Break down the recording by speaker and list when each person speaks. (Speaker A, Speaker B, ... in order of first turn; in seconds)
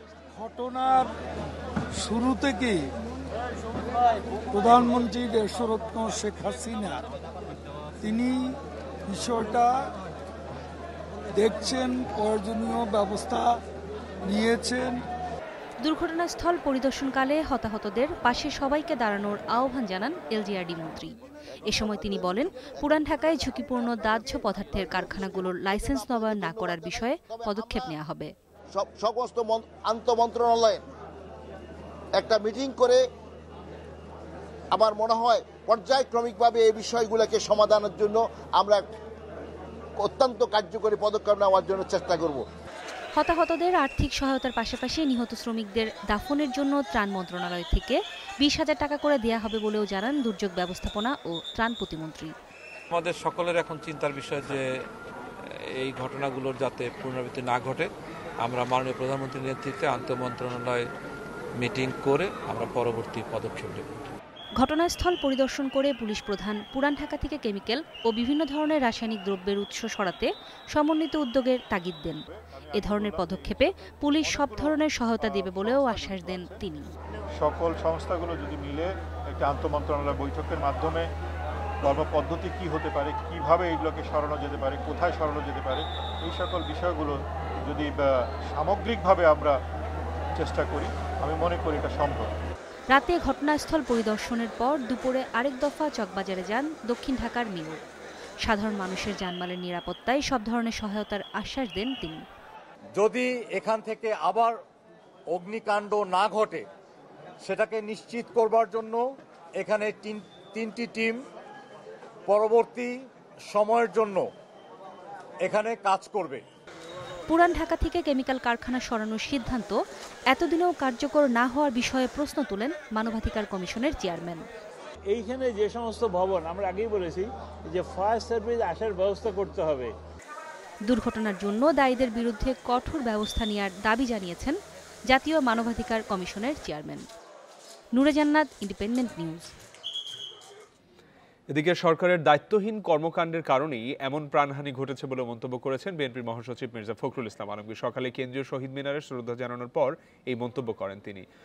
Speaker A: 0.4-1.1, 2.0-2.8, 4.5-7.0, 8.0-8.5, 9.1-9.9, 11.3-13.6, 14.2-15.0
Speaker B: 15.8-28.3, 43.1-52.3, 64.6-72.2, 72.7-76.9, 92.9-97.8, 98.4-102.2, 117.3-119.8, 120.3-124.5, 130.8-137.0, 137.9-139.5
Speaker C: 25.0-27.9, 28.8-30.8, 32.2-33.0, 34.7-38.8, 40.0-42.4
Speaker D: 52.9-54.7, 55.7-57.9, 58.4-60.9, 61.6-63.9
Speaker E: 72.8-73.5, 74.2-76.6, 77.3-81.1, 81.8-89.6, 90.4-92.3
Speaker F: 103.0-104.6, 105.3-106.7, 107.4-109.0, 109.6-111.2, 112.3-112.9, 113.5-114.2, 115.4-116.4
Speaker G: 125.1-129.9
Speaker H: 141.5-151.2